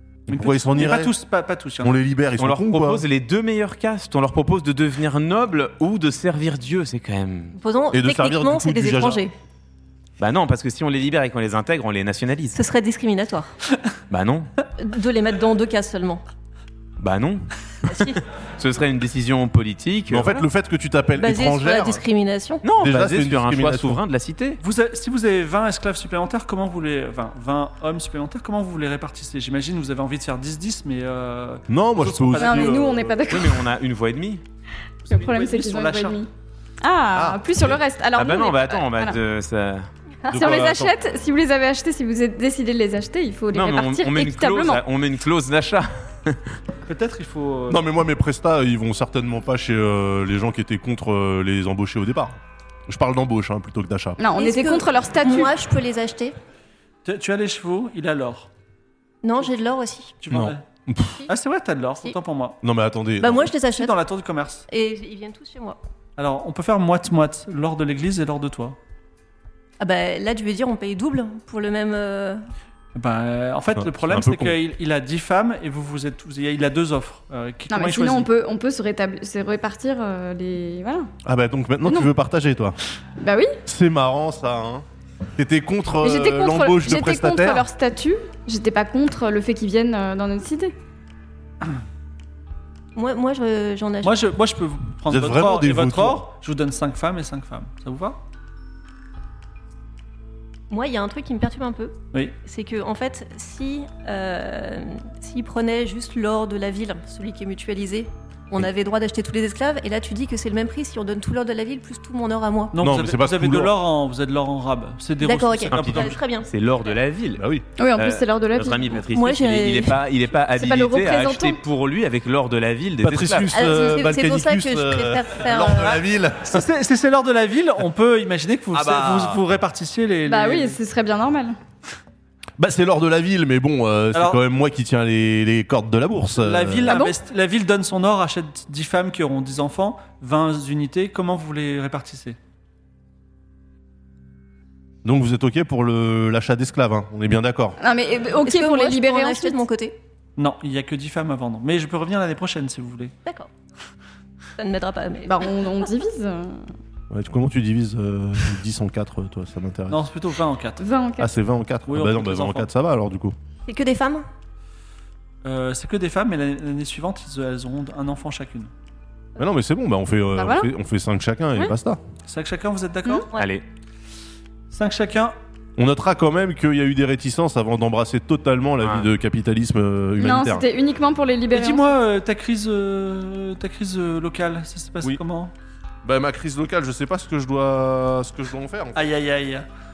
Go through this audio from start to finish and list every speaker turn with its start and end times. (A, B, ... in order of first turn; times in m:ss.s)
0:00.3-0:01.2 A
0:00.3-0:02.0 B
0:01.8-0:03.0 A
0:02.4-0:07.6 C
0:07.6-0:09.3 D
0:07.9-0:09.2 A
0:10.2-0:12.6 C
0:12.5-0:13.5 D
0:14.1-0:14.5 C
0:14.8-0:16.2 D
0:17.0-0:20.5 C
0:17.9-0:18.2 D
0:20.1-0:22.0 A
0:21.2-0:22.6 D
0:22.6-0:24.6 C
0:22.8-0:24.0 A
0:24.6-0:33.0 B
0:31.7-0:33.2 A
0:32.4-0:33.6 E
0:33.3-0:34.4 C
0:35.1-0:36.2 B
0:35.1-0:36.3 E
0:36.8-0:39.2 E
0:37.1-0:37.8 A
0:38.2-0:39.9 C
0:40.3-0:44.8 E
0:40.3-0:40.9 A
0:43.5-0:46.6 C
0:46.9-0:47.8 B
0:47.7-0:54.2 A
0:54.2-0:55.5 E
0:54.4-0:56.4 D
0:57.0-0:58.5 B
0:59.2-1:00.2 D
1:00.2-1:00.6 B
1:00.3-1:01.2 A
1:01.3-1:02.6 B
1:02.6-1:03.5 A
1:03.2-1:04.0 D
1:03.6-1:04.6 B
1:04.7-1:05.8 D
1:06.2-1:08.8 B
1:09.8-1:12.4 D
1:13.0-1:18.3 B
1:13.8-1:14.6 A
1:17.7-1:21.1 E
1:21.2-1:22.8 A
1:23.2-1:23.6 E
1:23.7-1:24.8 A
1:25.4-1:27.6 A
1:26.0-1:30.7 E
1:33.0-1:34.2 D
1:34.0-1:38.2 B
1:35.1-1:36.2 A
1:40.7-1:52.8 D
1:52.7-1:56.2 B
1:52.8-1:53.7 A
1:55.2-1:56.5 D
1:55.7-1:57.4 C
1:57.4-1:57.6 A
1:57.8-1:59.0 E
1:58.0-2:03.5 C
1:59.1-2:00.0 D
2:00.5-2:01.6 E
2:03.0-2:06.7 A
2:03.5-2:06.0 D
2:06.4-2:10.8 B
2:08.7-2:09.4 A
2:10.3-2:11.6 E
2:12.6-2:17.0 A
2:14.1-2:14.4 B
2:16.4-2:22.4 B
2:16.9-2:17.2 E
2:25.0-2:27.8 A
2:27.8-2:29.6 E
2:28.4-2:30.0 D
2:30.4-2:33.1 B
2:33.2-2:33.5 D
2:34.6-2:35.6 D
2:35.2-2:36.6 E
2:37.1-2:40.1 A
2:39.9-2:40.9 B
2:40.8-2:41.3 E
2:41.2-2:43.4 A
2:41.9-2:42.7 B
2:43.7-2:44.3 D
2:45.4-2:48.7 B
2:49.4-2:52.0 A
2:50.4-2:50.7 E
2:52.3-2:53.3 B
2:53.3-2:53.6 C
2:54.7-2:55.3 B
2:55.8-3:00.6 A
2:58.8-2:59.1 C
3:00.2-3:02.0 E
3:01.5-3:05.5 B
3:06.0-3:09.1 A
3:09.0-3:09.7 B